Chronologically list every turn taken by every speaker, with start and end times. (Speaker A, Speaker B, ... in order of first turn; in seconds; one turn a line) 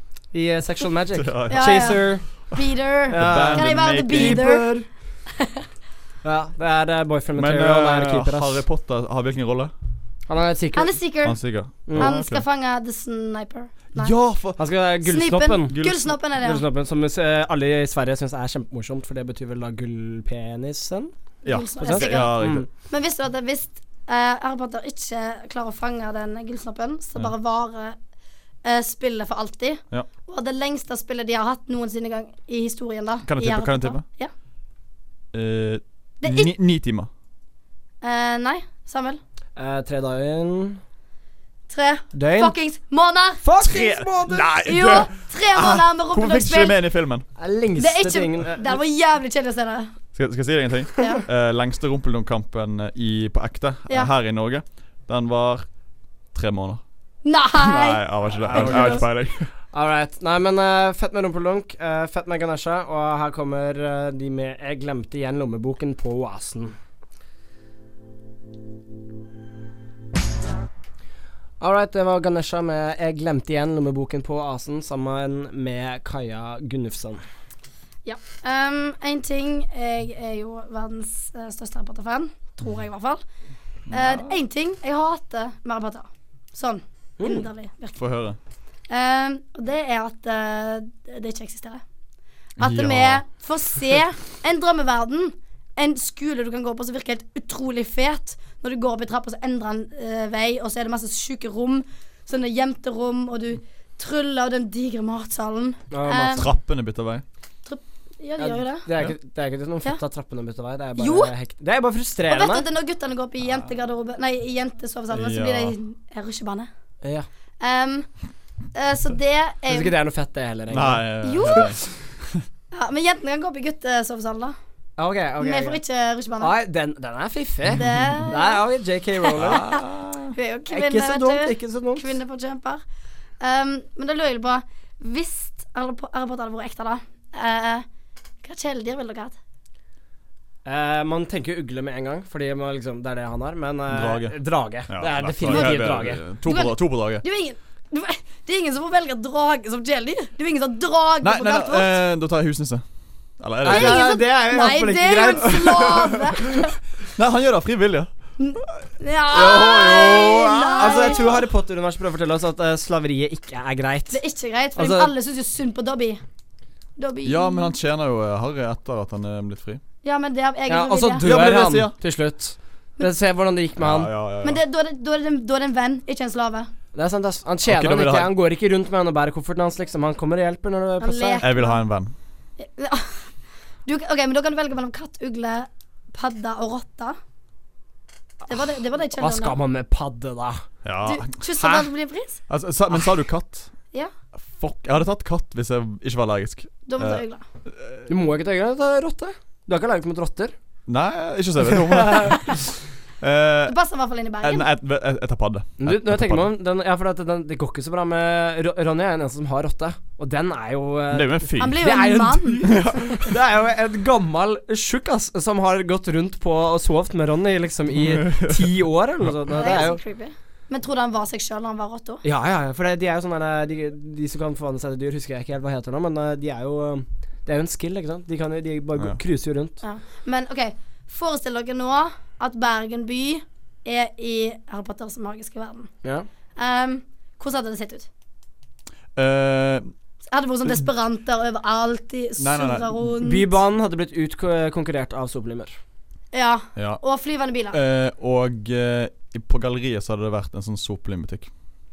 Speaker A: 0.3-2.2
Speaker B: 1.1-2.1
Speaker C: 1.5-4.7
Speaker A: 3.1-4.9
Speaker B: 3.2-4.5
Speaker C: 5.4-5.7
Speaker A: 6.2-8.6
Speaker B: 7.4-9.7
Speaker A: 10.3-10.9
Speaker C: 10.7-11.4
Speaker B: 11.2-12.4
Speaker A: 11.9-12.1
Speaker C: 11.9-14.1
Speaker B: 13.9-14.6
Speaker A: 14.6-15.8
Speaker C: 15.1-16.6
Speaker B: 15.7-16.1
Speaker A: 16.4-21.1
Speaker B: 21.4-22.7
Speaker C: 21.5-28.0
Speaker A: 21.8-22.7
Speaker C: 28.6-34.3
Speaker B: 33.2-34.0
Speaker B: 35.3-37.1
Speaker C: 36.2-36.5
Speaker C: 38.0-39.2
Speaker A: 39.6-40.8
Speaker C: 41.7-43.4
Speaker A: 42.1-42.5
Speaker A: 43.4-44.5
Speaker B: 43.6-47.3
Speaker C: 44.6-46.8
Speaker A: 47.4-48.8
Speaker C: 47.8-50.0
Speaker B: 50.1-55.7
Speaker C: 51.0-51.2
Speaker B: 56.3-56.8
Speaker C: 57.2-59.0
Speaker B: 57.5-59.5
Speaker A: 58.5-59.1
Speaker A: 59.7-66.8
Speaker A: 71.6-77.2
Speaker C: 78.0-83.2
Speaker B: 83.9-84.3
Speaker C: 83.9-88.0
Speaker A: 87.2-87.5
Speaker B: 88.0-88.4
Speaker C: 88.9-91.8
Speaker B: 92.6-93.2
Speaker C: 92.6-106.5
Speaker A: 105.9-106.4
Speaker B: 106.4-107.2
Speaker C: 107.7-108.9
Speaker A: 108.4-112.7
Speaker C: 111.0-111.3
Speaker C: 112.3-116.7
Speaker B: 115.1-115.8
Speaker A: 117.0-117.3
Speaker C: 117.6-118.1
Speaker C: 118.7-120.0
Speaker A: 119.7-121.7
Speaker B: 120.7-122.5
Speaker C: 121.2-121.8
Speaker C: 122.7-124.6
Speaker A: 125.0-125.8
Speaker C: 125.4-126.5
Speaker A: 126.4-132.1
Speaker C: 127.8-128.6
Speaker C: 129.3-132.8
Speaker B: 129.4-129.8
Speaker C: 133.4-137.9
Speaker C: 138.4-139.3
Speaker A: 140.7-146.2
Speaker B: 143.9-144.3
Speaker B: 144.9-147.2
Speaker C: 146.4-152.0
Speaker B: 151.2-152.8
Speaker B: 153.4-154.0
Speaker A: 153.6-155.9
Speaker C: 153.7-156.8
Speaker B: 155.5-156.5
Speaker B: 157.1-158.1
Speaker C: 158.4-161.4
Speaker B: 159.3-161.4
Speaker A: 160.8-164.2
Speaker C: 164.1-166.2
Speaker A: 164.8-165.1
Speaker C: 167.0-167.7
Speaker B: 167.2-169.8
Speaker C: 170.0-171.3
Speaker A: 170.7-174.1
Speaker B: 171.2-171.9
Speaker B: 173.8-174.6
Speaker C: 174.4-176.7
Speaker A: 176.9-181.4
Speaker B: 177.7-178.3
Speaker C: 181.0-181.8
Speaker B: 181.4-182.1
Speaker C: 182.6-183.3
Speaker C: 183.9-187.2
Speaker C: 188.5-189.6
Speaker A: 189.2-190.6
Speaker B: 190.8-191.4
Speaker C: 191.1-192.4
Speaker A: 191.6-191.9
Speaker B: 192.5-193.7
Speaker B: 194.4-197.2
Speaker C: 196.9-197.4
Speaker B: 197.8-198.1
Speaker A: 198.1-200.5
Speaker B: 200.9-203.8
Speaker C: 203.7-204.7
Speaker B: 204.4-206.5
Speaker A: 205.8-220.0
Speaker B: 211.1-211.9
Speaker C: 211.6-213.3
Speaker B: 212.6-213.1
Speaker B: 218.0-218.7
Speaker C: 219.6-222.2
Speaker A: 222.2-229.8
Speaker C: 229.8-235.9
Speaker C: 236.6-238.1
Speaker B: 239.2-239.9
Speaker C: 240.3-243.5
Speaker B: 242.4-243.1
Speaker A: 243.2-245.8
Speaker C: 246.3-247.8
Speaker B: 246.8-247.0
Speaker B: 247.7-251.5